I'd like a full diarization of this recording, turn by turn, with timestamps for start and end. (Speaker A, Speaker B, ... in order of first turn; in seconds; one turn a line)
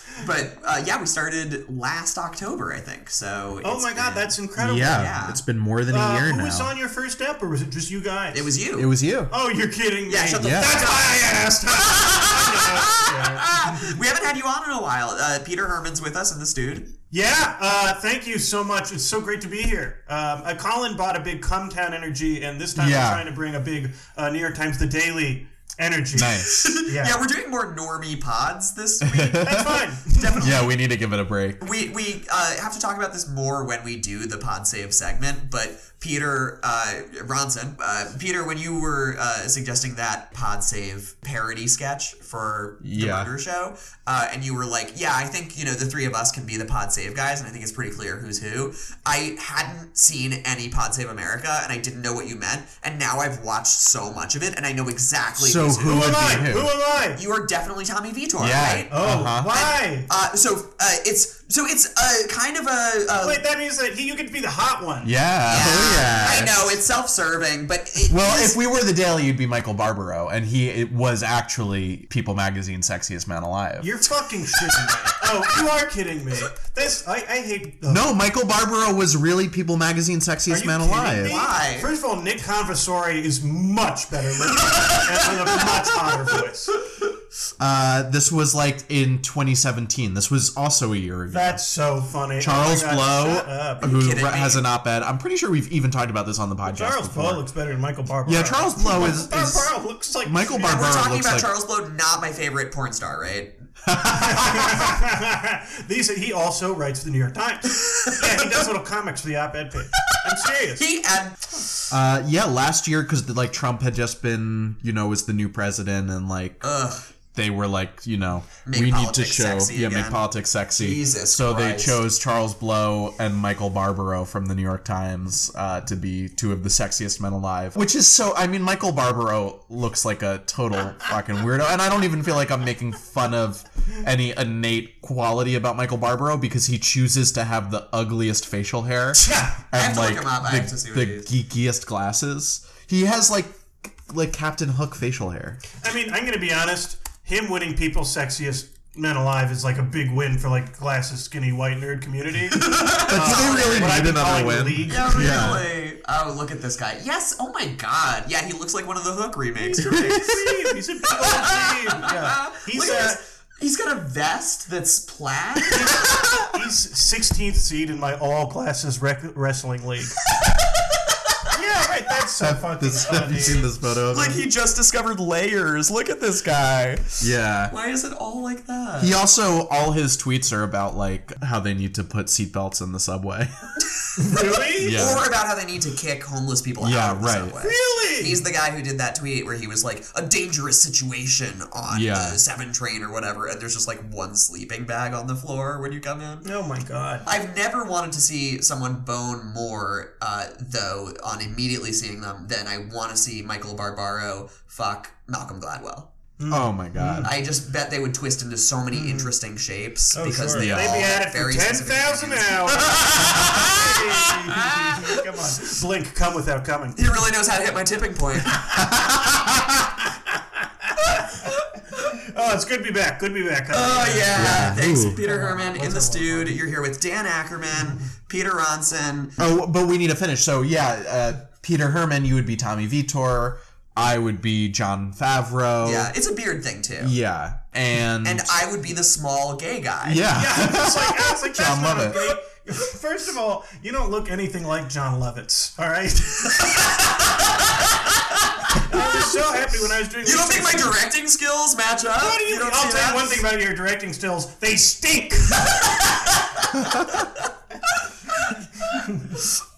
Speaker A: 0.2-4.4
Speaker B: 3.6-5.0
Speaker C: 4.5-6.7
Speaker A: 4.9-5.4
Speaker B: 5.9-8.5
Speaker A: 8.3-8.9
Speaker C: 8.8-9.3
Speaker B: 9.3-14.0
Speaker A: 10.1-11.4
Speaker C: 10.4-10.8
Speaker A: 11.9-16.9
Speaker B: 17.1-27.2
Speaker C: 22.8-23.2
Speaker C: 26.1-26.6
Speaker A: 26.5-30.6
Speaker C: 29.0-29.6
Speaker B: 29.4-30.5
Speaker C: 30.4-31.6
Speaker A: 31.6-56.5
Speaker C: 42.8-43.3
Speaker C: 55.4-56.7
Speaker B: 55.8-57.2
Speaker A: 57.1-63.4
Speaker C: 58.4-59.5
Speaker B: 58.9-60.1
Speaker B: 63.2-65.1
Speaker C: 65.0-66.8
Speaker A: 65.5-68.5
Speaker C: 68.1-73.9
Speaker B: 73.8-78.2
Speaker C: 77.9-81.4
Speaker B: 80.5-86.7
Speaker A: 81.2-81.9
Speaker A: 84.7-85.1
Speaker C: 87.6-91.6
Speaker B: 91.3-93.9
Speaker C: 92.4-97.4
Speaker A: 93.8-94.6
Speaker B: 96.6-101.0
Speaker C: 98.2-99.7
Speaker C: 100.2-101.5
Speaker A: 100.6-103.7
Speaker C: 103.9-104.7
Speaker B: 104.2-110.8
Speaker A: 110.8-111.7
Speaker C: 111.9-116.6
Speaker A: 116.6-117.0
Speaker C: 117.3-145.6
Speaker A: 118.7-120.2
Speaker A: 120.8-122.0
Speaker B: 139.2-139.6
Speaker A: 139.7-141.3
Speaker B: 145.8-155.6
Speaker A: 152.7-154.1
Speaker C: 153.1-155.7
Speaker A: 154.8-160.5
Speaker B: 159.6-163.2
Speaker C: 159.9-160.3
Speaker A: 161.1-166.1
Speaker B: 165.7-170.2
Speaker B: 171.5-173.7
Speaker C: 172.4-174.4
Speaker A: 174.1-177.1
Speaker C: 177.2-177.7
Speaker A: 177.7-179.2
Speaker C: 179.0-183.5
Speaker B: 184.2-185.1
Speaker A: 184.3-196.5
Speaker C: 184.8-185.3
Speaker C: 186.8-187.6
Speaker B: 187.6-188.4
Speaker C: 191.9-192.4
Speaker B: 196.4-197.3
Speaker A: 197.2-206.1
Speaker B: 206.4-207.3
Speaker C: 206.5-207.3
Speaker A: 207.2-213.9
Speaker B: 208.9-209.3
Speaker B: 210.1-217.0
Speaker C: 210.5-211.1
Speaker A: 216.9-218.6
Speaker B: 222.1-226.6
Speaker A: 223.7-229.3
Speaker C: 224.3-225.2
Speaker C: 229.4-236.1
Speaker A: 235.8-237.2
Speaker C: 237.0-238.6
Speaker A: 238.2-240.3
Speaker C: 240.0-242.2
Speaker B: 240.3-246.6
Speaker B: 248.8-251.0
Speaker A: 250.2-253.4
Speaker B: 252.2-255.9
Speaker B: 258.9-259.3